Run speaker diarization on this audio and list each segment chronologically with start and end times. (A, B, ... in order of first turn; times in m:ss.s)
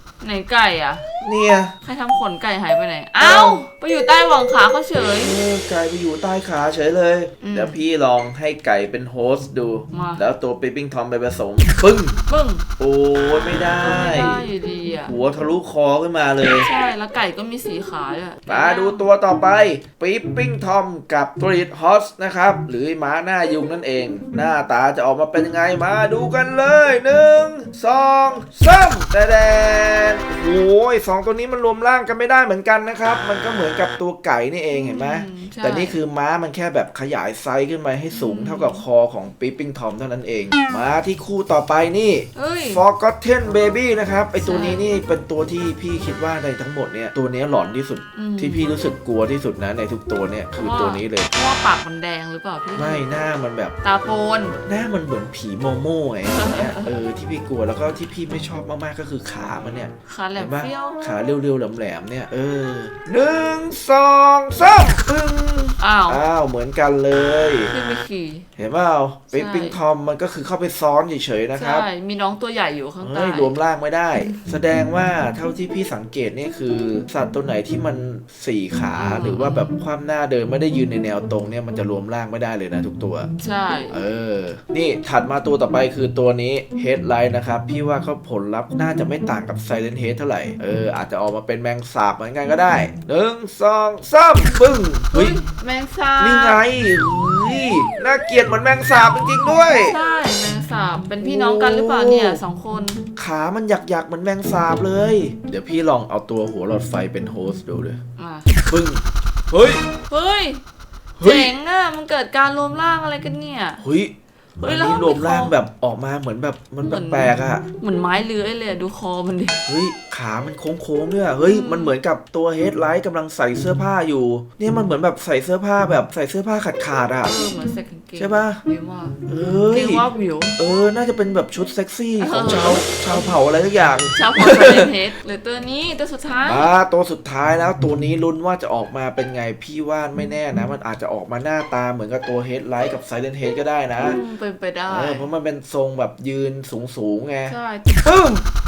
0:00.2-0:01.0 A
0:01.2-0:01.7 B
0:01.8-0:05.4 A
0:03.2-0:03.6 B
0:05.2-0:12.2 B
0:07.4-0:07.8 A
0:09.9-0:10.2 A
0:12.3-0:12.6 A
0:12.8-0:14.4 B
0:13.8-0:15.1 A
0:15.0-0:16.7 B
0:16.6-0:19.1 A
0:18.5-0:51.3 B
0:34.7-0:36.0 A
0:38.1-0:38.8 A
0:42.3-0:42.8 A
0:44.4-0:44.8 A
0:48.2-0:48.6 A
0:50.6-0:53.1 A
0:52.8-0:53.7 B
0:53.8-0:54.6 A
0:54.6-1:07.7 B
0:56.2-0:56.9 A
1:00.0-1:01.0 A
1:05.8-1:06.2 A
1:07.7-1:08.4 A
1:08.6-1:11.8 B
1:09.3-1:09.8 A
1:11.5-1:13.6 A
1:13.0-1:23.3 B
1:19.0-1:19.7 A
1:23.4-1:24.0 A
1:23.9-1:35.4 B
1:35.1-1:36.6 A
1:36.2-1:40.0 B
1:39.4-1:43.0 A
1:41.2-1:42.4 B
1:43.2-1:48.0 B
1:48.2-1:48.5 A
1:48.7-1:49.8 B
1:50.1-1:50.6 A
1:51.2-1:51.5 B
1:51.2-1:53.8 A
1:53.8-1:54.1 B
1:54.6-1:55.5 A
1:54.6-1:57.6 B
1:56.8-1:59.6 A
1:59.7-2:07.4 B
2:01.4-2:02.0 A
2:07.2-2:09.2 A
2:08.2-2:08.6 B
2:09.3-2:10.0 B
2:09.7-2:10.6 A
2:10.6-2:14.9 B
2:12.2-2:13.4 A
2:14.1-2:16.7 A
2:16.4-2:24.2 B
2:24.0-2:25.3 A
2:24.9-2:28.4 B
2:27.5-2:27.9 A